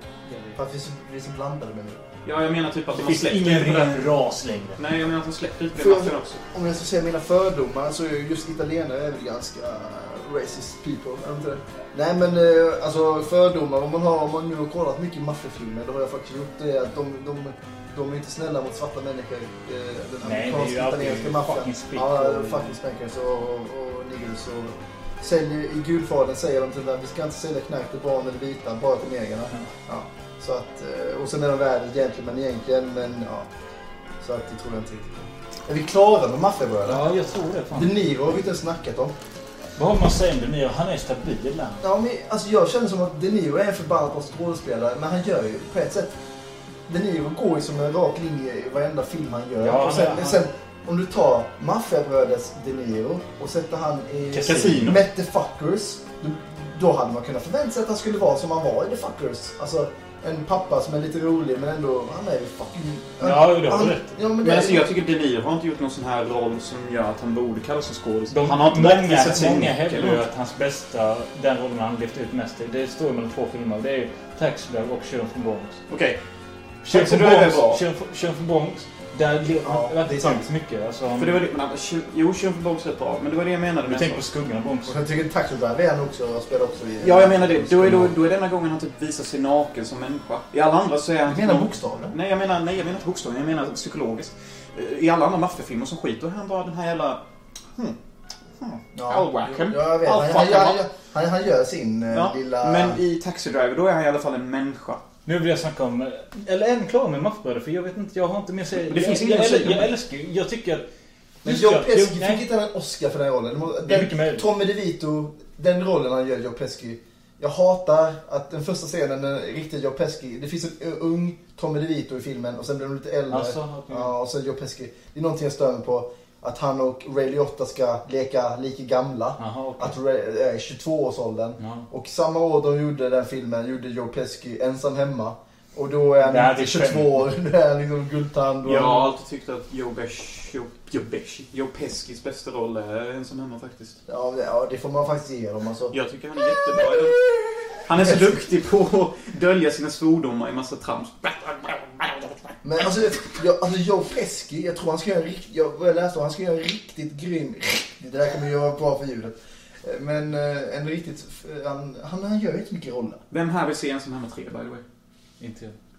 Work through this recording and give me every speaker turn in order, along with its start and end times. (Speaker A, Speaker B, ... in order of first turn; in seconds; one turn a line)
Speaker A: 0.3-0.6
Speaker B: 0.6-2.0
Speaker C: 2.2-4.1
Speaker A: 2.9-4.8
Speaker C: 4.8-6.4
Speaker B: 5.7-33.5
Speaker A: 20.2-22.7
Speaker B: 34.2-37.0
Speaker A: 36.8-37.9
Speaker B: 37.7-39.1
Speaker A: 39.8-41.8
Speaker B: 41.8-46.1
Speaker B: 46.9-64.9
Speaker A: 49.6-50.4
Speaker A: 54.3-54.9
Speaker C: 54.4-55.0
Speaker A: 63.2-64.1
Speaker C: 64.4-70.2
Speaker A: 68.3-75.8
Speaker C: 75.9-76.2
Speaker A: 76.8-81.4
Speaker C: 76.9-77.8
Speaker B: 79.6-80.5
Speaker C: 81.2-84.2
Speaker A: 83.9-85.0
Speaker B: 84.9-88.1
Speaker C: 87.0-97.2
Speaker A: 87.8-88.1
Speaker B: 91.3-92.2
Speaker C: 98.6-100.8
Speaker B: 98.9-103.0
Speaker C: 102.1-105.0
Speaker A: 105.2-110.8
Speaker C: 108.7-109.9
Speaker A: 111.4-112.4
Speaker B: 111.4-139.1
Speaker A: 113.8-114.4
Speaker A: 123.3-124.1
Speaker A: 129.4-129.9
Speaker A: 131.6-131.9
Speaker A: 136.2-137.2
Speaker C: 138.6-144.0
Speaker B: 144.1-145.9
Speaker C: 145.9-147.2
Speaker C: 147.8-152.6
Speaker B: 148.0-148.3
Speaker B: 152.6-163.2
Speaker C: 163.3-164.8
Speaker A: 165.4-165.8